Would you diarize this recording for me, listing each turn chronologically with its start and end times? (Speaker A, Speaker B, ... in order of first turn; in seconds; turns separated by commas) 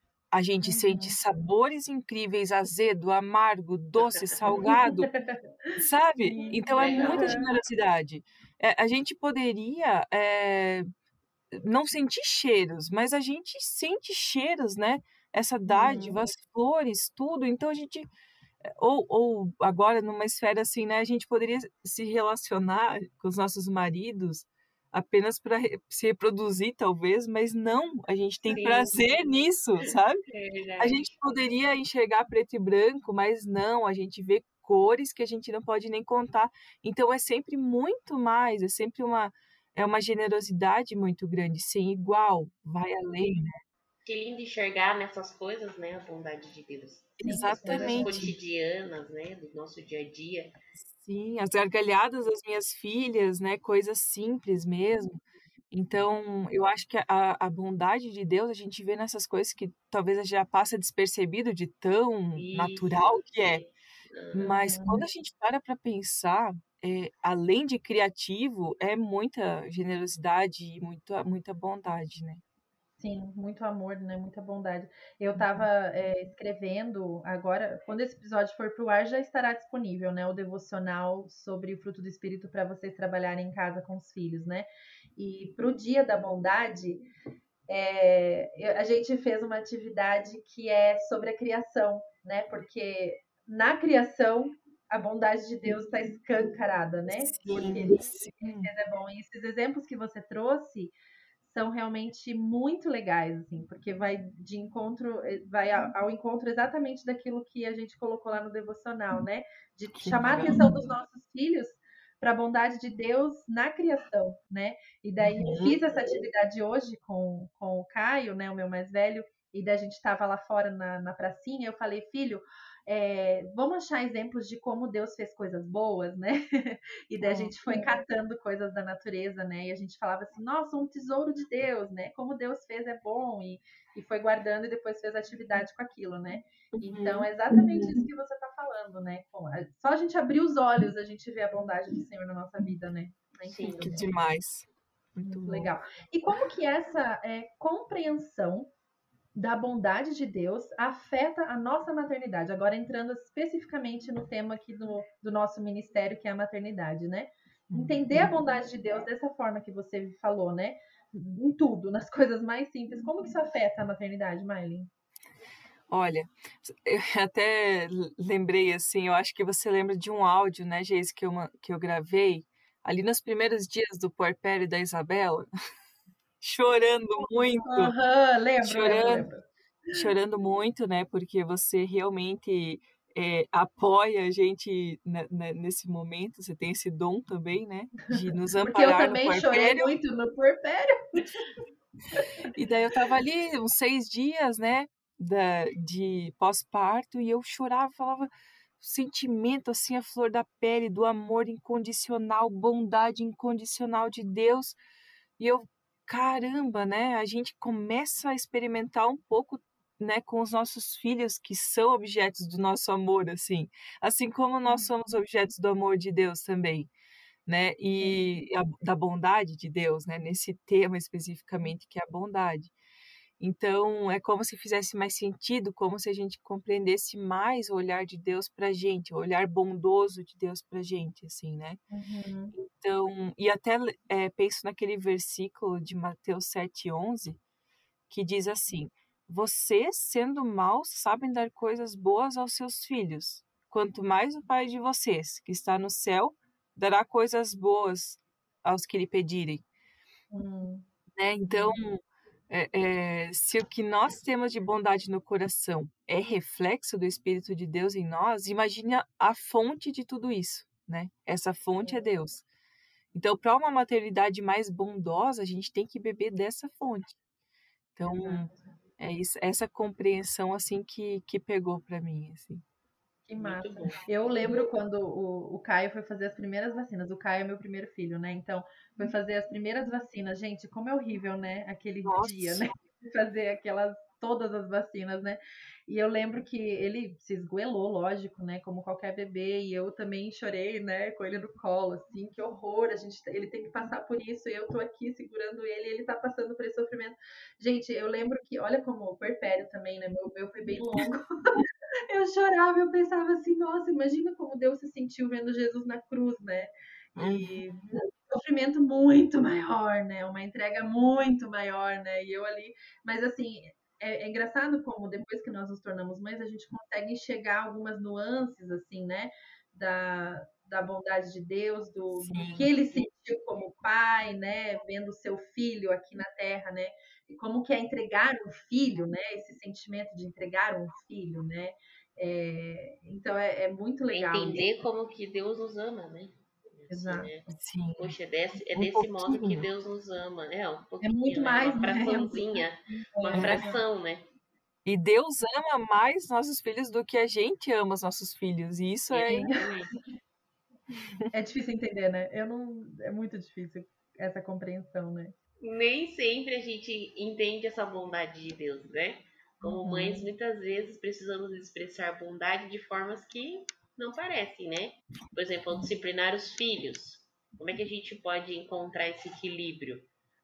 Speaker A: 0.3-5.1, Speaker B: 0.6-1.2, Speaker C: 4.0-4.6, Speaker B: 4.6-7.5, Speaker A: 5.8-10.8, Speaker C: 6.7-7.4, Speaker A: 11.5-18.1, Speaker B: 15.7-16.2, Speaker A: 18.6-30.2, Speaker C: 28.5-29.2, Speaker C: 29.8-31.1, Speaker A: 30.8-43.5, Speaker C: 44.0-50.5, Speaker A: 47.2-48.3, Speaker B: 47.2-48.3, Speaker A: 50.8-55.2, Speaker A: 55.7-63.6, Speaker C: 62.4-64.6, Speaker A: 64.3-72.4, Speaker B: 64.7-65.0, Speaker B: 73.0-87.1, Speaker A: 75.4-75.7, Speaker B: 87.7-144.0, Speaker A: 97.1-98.7, Speaker A: 110.0-110.7, Speaker A: 115.2-115.8, Speaker A: 127.2-127.8, Speaker A: 136.7-138.0, Speaker C: 143.4-144.0, Speaker A: 143.7-145.7, Speaker B: 145.3-148.7, Speaker B: 149.3-164.9, Speaker A: 157.7-158.3, Speaker A: 165.9-175.5, Speaker A: 176.4-177.9, Speaker B: 177.7-180.0, Speaker A: 178.6-179.3, Speaker A: 179.9-190.0, Speaker B: 188.6-191.3, Speaker A: 192.5-204.8, Speaker A: 205.4-216.9, Speaker B: 214.7-214.9, Speaker A: 217.5-222.7, Speaker B: 218.0-218.4, Speaker A: 223.4-231.8, Speaker B: 231.9-232.6, Speaker A: 232.6-237.4, Speaker A: 238.1-249.6, Speaker B: 250.3-250.9, Speaker A: 251.2-262.4, Speaker B: 251.5-251.8, Speaker A: 263.1-267.2, Speaker A: 268.0-272.6, Speaker B: 268.1-268.7, Speaker B: 273.3-334.7, Speaker C: 273.4-274.7, Speaker A: 282.1-282.7, Speaker A: 307.2-307.6, Speaker A: 322.1-322.7, Speaker C: 334.1-344.2, Speaker B: 336.9-337.3, Speaker A: 337.5-338.2, Speaker A: 338.7-339.7, Speaker B: 341.0-343.8, Speaker A: 343.3-343.7, Speaker A: 344.9-349.5, Speaker C: 349.1-350.0, Speaker B: 349.3-349.6, Speaker B: 351.3-355.3, Speaker C: 355.6-370.1, Speaker B: 359.6-360.3